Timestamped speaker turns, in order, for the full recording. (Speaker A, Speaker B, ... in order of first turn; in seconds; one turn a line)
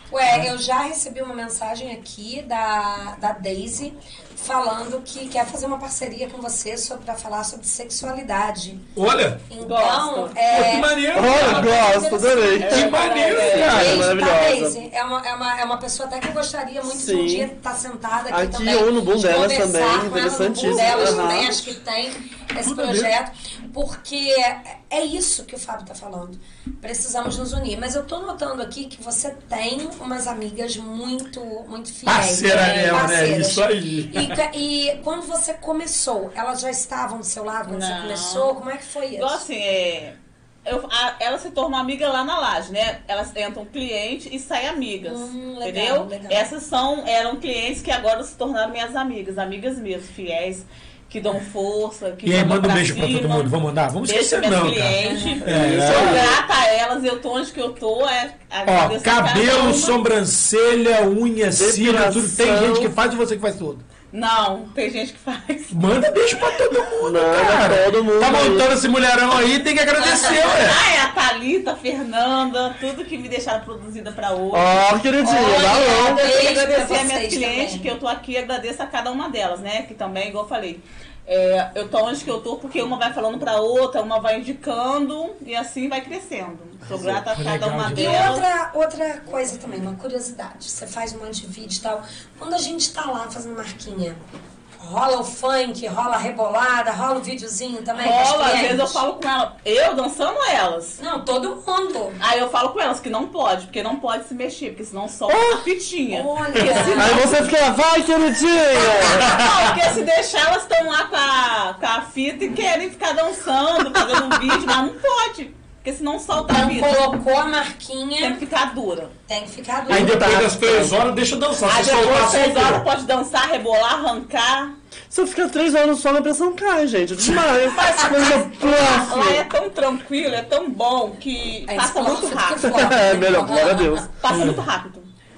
Speaker A: 0.1-8.9
Speaker B: 0.3-0.5
Speaker B: 8.9-9.4
Speaker A: 9.5-39.4
Speaker C: 9.6-10.4
Speaker B: 10.5-11.9
Speaker D: 11.1-14.8
Speaker C: 12.6-14.0
Speaker B: 12.7-14.1
Speaker D: 16.9-17.5
Speaker D: 18.3-21.6
Speaker B: 20.6-21.3
Speaker B: 22.6-23.1
Speaker B: 32.1-34.4
Speaker C: 32.5-33.0
Speaker C: 37.7-38.6
Speaker C: 39.2-53.5
Speaker A: 45.0-46.5
Speaker B: 52.2-56.3
Speaker C: 54.0-60.0
Speaker A: 55.0-55.5
Speaker D: 55.4-56.4
Speaker B: 58.7-63.8
Speaker D: 61.5-62.9
Speaker C: 64.1-65.8
Speaker B: 65.7-70.8
Speaker D: 67.0-68.7
Speaker A: 70.0-70.4
Speaker C: 70.1-74.8
Speaker D: 74.5-76.2
Speaker A: 75.2-77.9
Speaker C: 75.5-88.5
Speaker B: 86.9-88.3
Speaker A: 87.9-94.2
Speaker A: 94.8-99.0
Speaker C: 98.0-101.0
Speaker A: 101.0-102.2
Speaker C: 102.2-107.5
Speaker D: 105.3-105.6
Speaker A: 106.1-107.5
Speaker D: 107.0-109.4
Speaker C: 108.7-117.1
Speaker B: 109.3-109.6
Speaker A: 116.5-118.4
Speaker C: 118.2-119.1
Speaker A: 119.3-120.3
Speaker D: 119.9-121.0
Speaker B: 119.9-122.9
Speaker C: 121.7-124.7
Speaker D: 125.1-129.4
Speaker C: 127.7-132.7
Speaker A: 131.7-134.1
Speaker D: 132.6-134.1
Speaker C: 133.4-135.1
Speaker B: 134.3-134.7